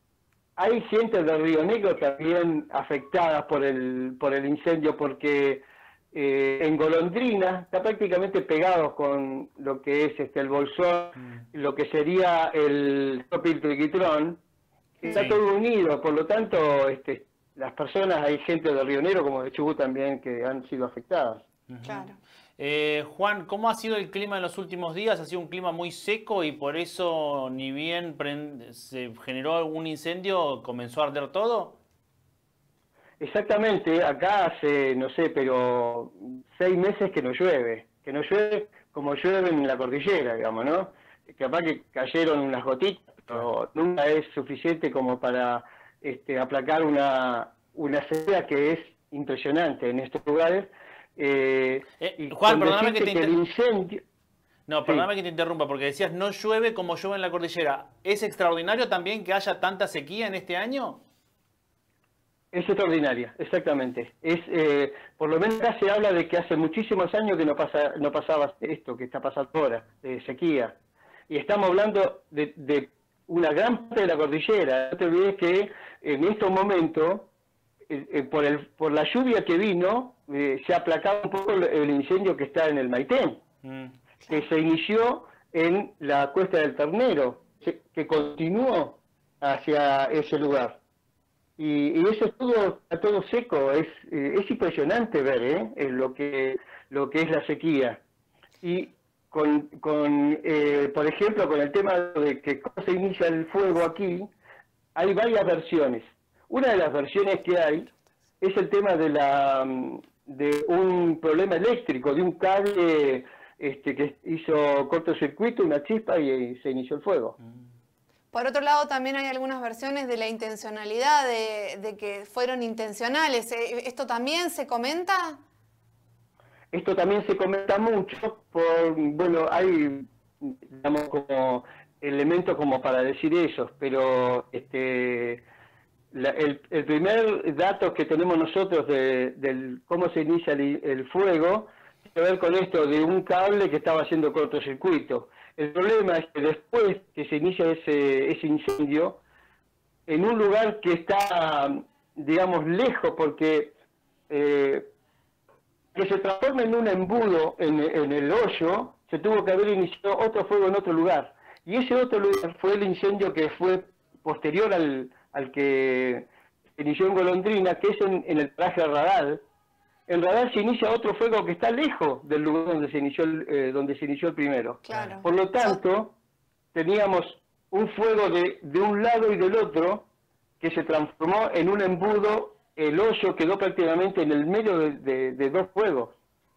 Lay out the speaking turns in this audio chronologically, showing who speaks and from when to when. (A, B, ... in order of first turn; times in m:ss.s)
0:00.6-0:14.4 A
0:15.0-0:21.4 A
0:15.1-0:15.4 B
0:21.7-0:31.8 B
0:21.8-0:22.2 C
0:33.2-0:54.0 A
0:52.0-0:53.3 B
0:54.7-1:01.0 B
1:02.5-1:10.8 A
1:11.3-1:17.3 A
1:17.9-1:23.4 A
1:23.6-1:23.9 B
1:24.3-1:30.8 A
1:31.6-1:38.0 A
1:38.6-1:44.3 A
1:44.9-1:47.9 A
1:48.4-1:57.4 A
1:58.3-2:05.4 C
2:06.7-2:15.4 A
2:16.1-2:29.2 A
2:30.1-2:33.7 A
2:34.3-2:34.9 A
2:35.9-2:49.4 A
2:50.1-2:56.1 A
2:54.8-2:55.8 C
2:56.7-3:00.1 A
3:00.6-3:06.2 A